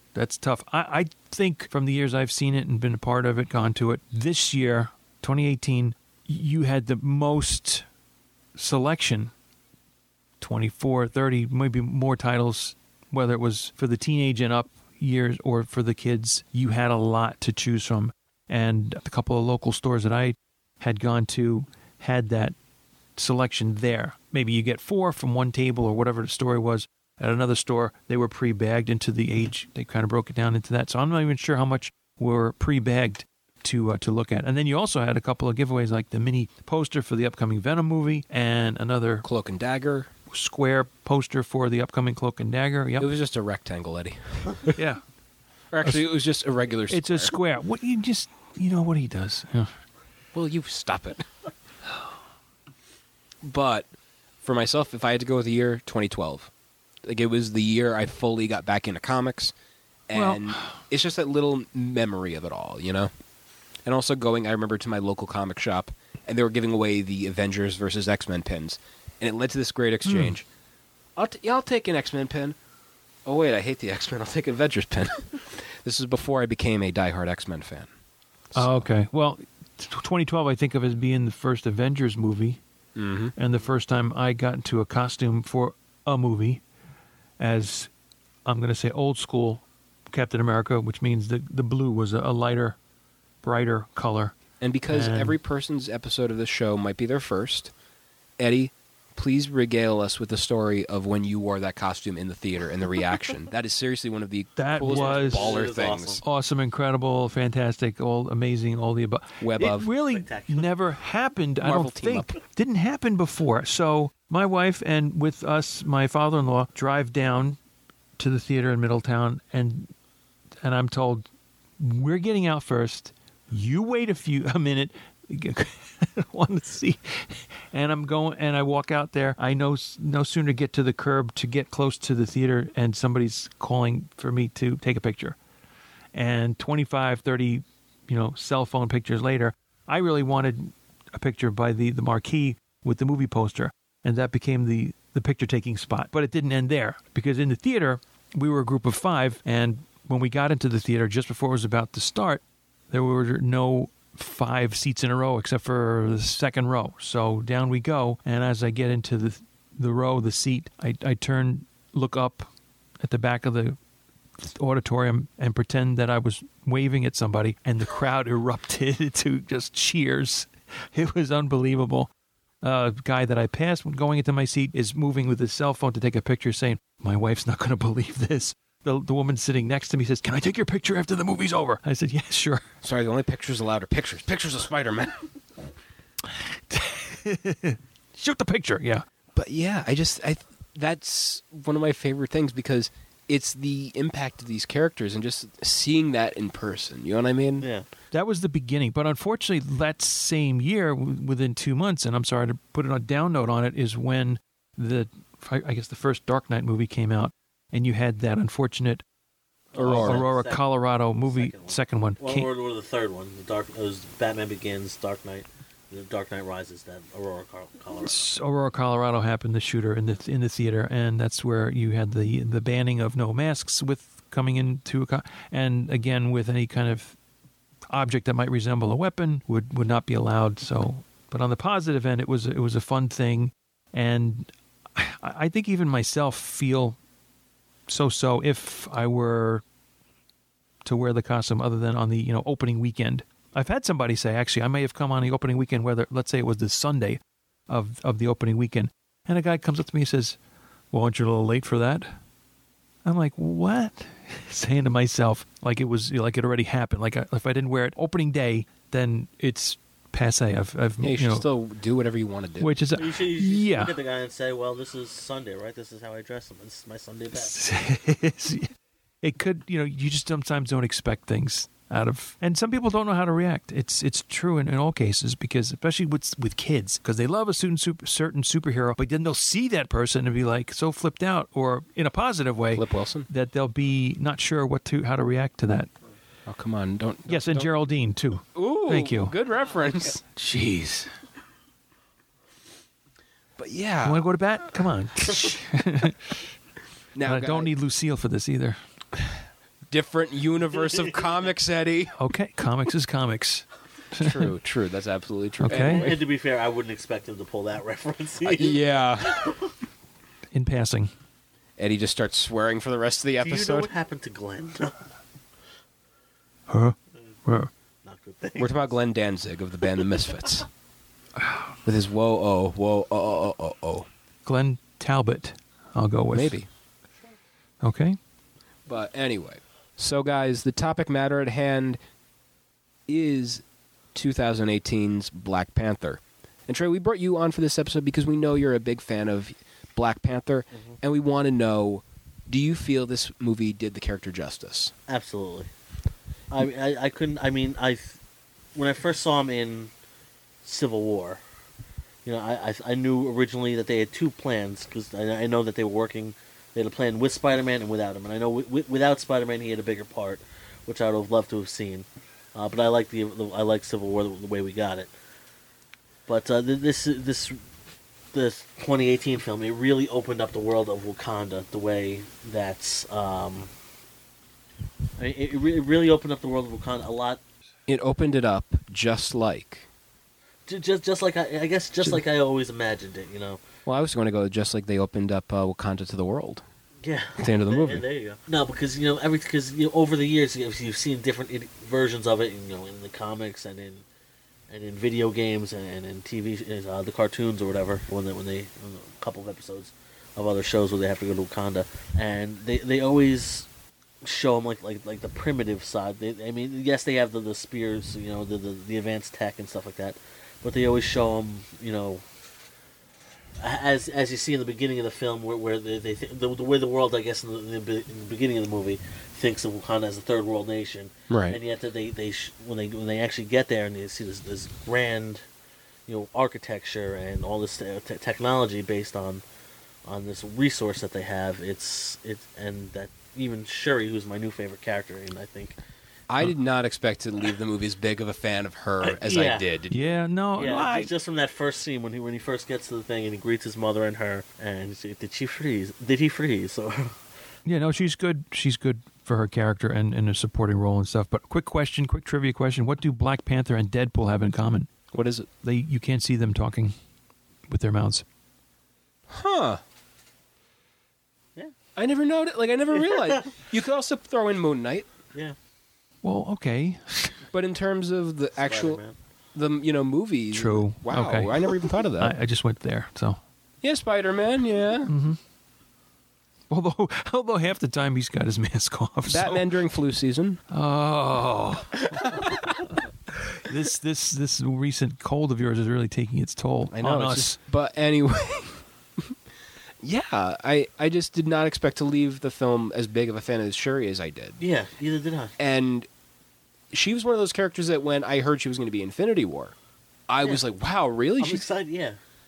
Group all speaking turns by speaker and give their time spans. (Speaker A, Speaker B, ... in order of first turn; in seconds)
Speaker A: 0.1-7.9, 8.5-9.3, 10.4-22.5, 23.1-39.2, 40.3-43.1, 44.8-45.0, 46.9-49.7, 60.1-60.8, 70.0-70.3, 78.5-82.6, 83.4-86.6, 87.4-87.9, 88.5-92.8, 93.4-94.4, 94.9-95.4, 104.6-105.5, 106.2-117.6, 118.2-119.9, 120.6-121.2, 121.8-135.4, 136.1-162.5, 163.0-163.8, 164.4-172.1, 172.6-182.6, 186.3-189.0, 198.1-209.0, 209.9-212.5, 218.0-227.2, 227.9-237.0, 237.9-239.6, 240.8-250.4, 250.9-252.1, 253.0-261.4, 262.6-263.9, 267.4-285.9, 287.3-289.3, 290.3-291.1, 294.0-296.4, 297.2-298.8, 302.2-304.5, 305.6-306.1, 310.5-311.1, 316.7-317.7, 321.4-321.7, 324.4-326.6, 327.8-328.2, 439.9-441.1, 447.6-454.9, 455.6-456.9, 457.7-458.2, 466.2-467.4, 470.5-471.6, 472.2-473.4, 475.1-475.4, 476.7-479.7, 480.7-482.6, 483.6-487.6
Speaker B: 39.2-40.1, 43.0-44.8, 45.7-47.3, 50.3-51.3, 53.4-53.9, 54.4-56.5, 57.0-59.5, 60.1-63.1, 63.9-70.4, 71.2-72.6, 73.2-77.9, 78.5-78.9, 82.9-83.3, 94.6-97.7, 98.4-106.2, 109.4-109.9, 111.6-112.3, 182.8-185.2, 189.3-197.7, 209.7-210.2, 261.0-262.7, 282.7-283.3, 286.4-287.7, 288.5-290.2, 293.6-294.2, 297.1-297.7, 299.9-302.1, 304.1-306.2, 308.4-309.6, 311.8-313.9, 318.6-320.7, 321.9-324.1, 326.3-326.7, 328.9-332.0, 333.1-344.9, 377.9-379.9, 383.9-386.6, 387.4-388.0, 421.3-421.6, 436.3-439.9, 455.1-455.5, 459.3-459.8, 461.9-465.1, 467.5-469.0, 469.5-472.4, 473.8-475.1, 479.3-480.6, 482.2-482.5, 486.9-489.4, 490.0-494.6, 495.6-496.1, 496.9-499.7, 500.3-501.6
Speaker C: 104.8-106.2, 110.1-110.7, 197.6-197.9, 209.7-210.6, 211.2-218.4, 262.9-267.6, 305.7-309.7, 313.4-315.0, 318.0-318.9, 345.1-345.7, 346.5-348.2, 348.7-349.9, 350.6-351.4, 352.2-365.1, 366.3-367.6, 368.3-373.7, 375.2-377.4, 380.7-383.6, 387.0-394.0, 394.7-403.7, 404.2-412.2, 413.6-425.4, 426.1-429.4, 430.1-435.8, 439.0-439.6, 440.6-447.1, 463.1-463.4, 468.6-469.1, 494.6-495.5, 501.4-502.2